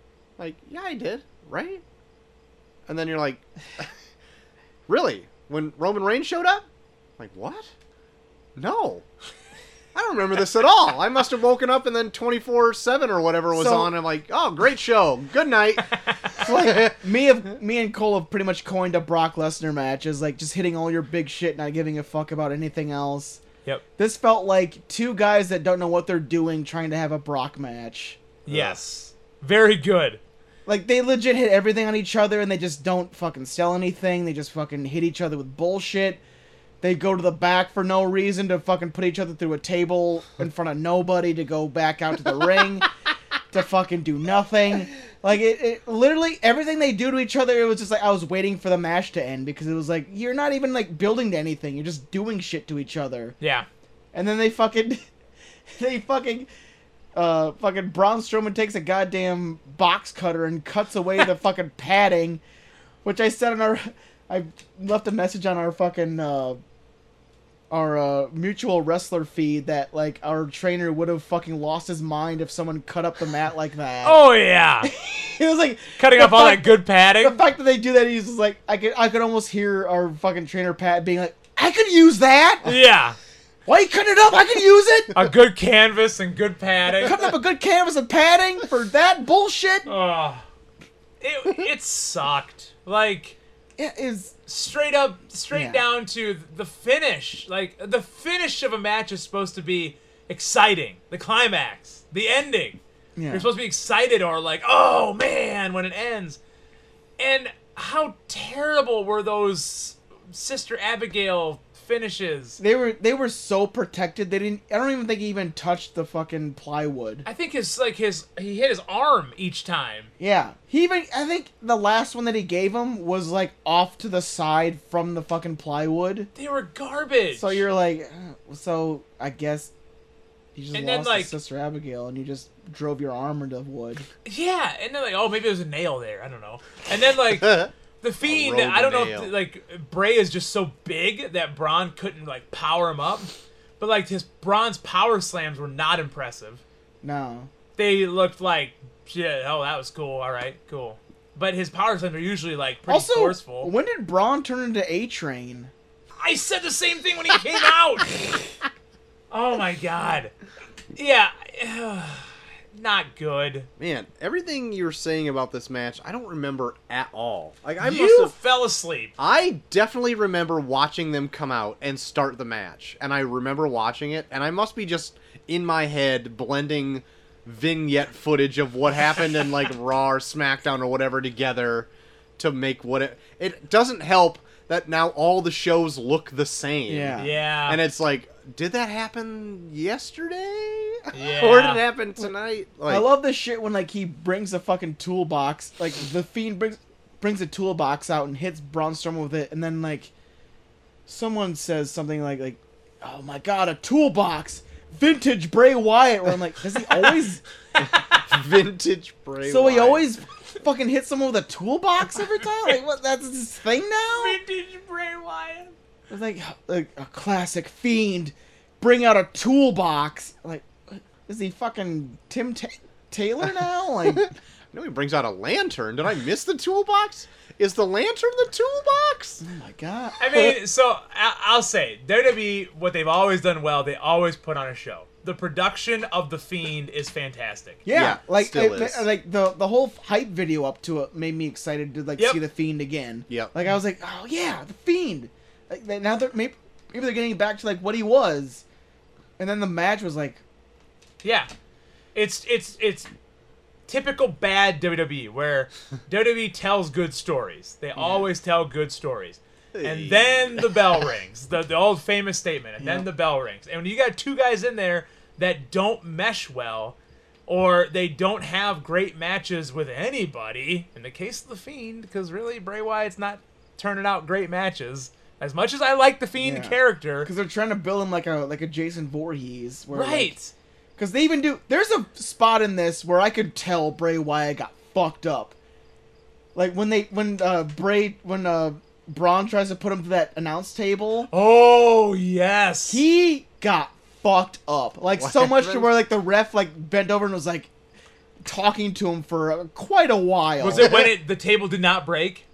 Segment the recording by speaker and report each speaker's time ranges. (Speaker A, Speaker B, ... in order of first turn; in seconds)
Speaker A: 0.4-1.8, 2.9-3.9, 4.9-6.7, 7.2-7.7, 8.6-9.1, 9.9-16.9, 28.5-28.8, 137.4-137.7, 138.2-139.3, 163.8-168.3, 169.2-193.1, 207.8-210.1, 224.7-229.4, 237.9-239.1, 259.7-260.8, 295.2-295.9
Speaker B: 13.5-13.9, 16.4-23.4, 24.0-28.2, 30.6-36.2, 36.8-42.9, 43.5-53.4, 54.1-55.0, 55.8-56.5, 57.1-62.4, 63.0-66.6, 67.7-74.2, 74.8-82.7, 83.7-85.3, 87.0-89.9, 93.8-94.3, 95.5-95.8, 103.2-103.5, 112.6-117.2, 120.2-126.3, 127.3-129.7, 130.5-134.1, 147.0-147.5, 152.9-155.7, 186.9-187.3, 192.9-200.1, 201.1-207.4, 209.4-214.4, 216.1-224.3, 229.4-230.2, 237.8-248.6, 249.4-250.4, 258.0-258.3, 262.8-263.1, 276.4-280.3, 281.0-285.5, 286.5-291.3, 292.9-297.7, 298.4-301.1
Speaker C: 28.4-30.2, 53.4-53.7, 74.0-74.9, 76.0-77.4, 82.6-83.2, 85.1-87.2, 89.8-90.4, 91.2-93.3, 94.5-102.8, 103.3-106.4, 107.2-112.6, 117.2-120.1, 126.3-127.6, 130.7-131.3, 134.2-146.6, 147.8-153.7, 156.2-158.2, 159.3-160.3, 160.9-163.7, 167.8-169.1, 187.2-187.8, 191.1-191.8, 207.8-208.2, 214.1-215.7, 230.2-237.8, 251.2-251.5, 252.1-253.1, 253.9-266.9, 267.5-277.3, 279.9-280.5, 291.3-293.0, 300.6-302.4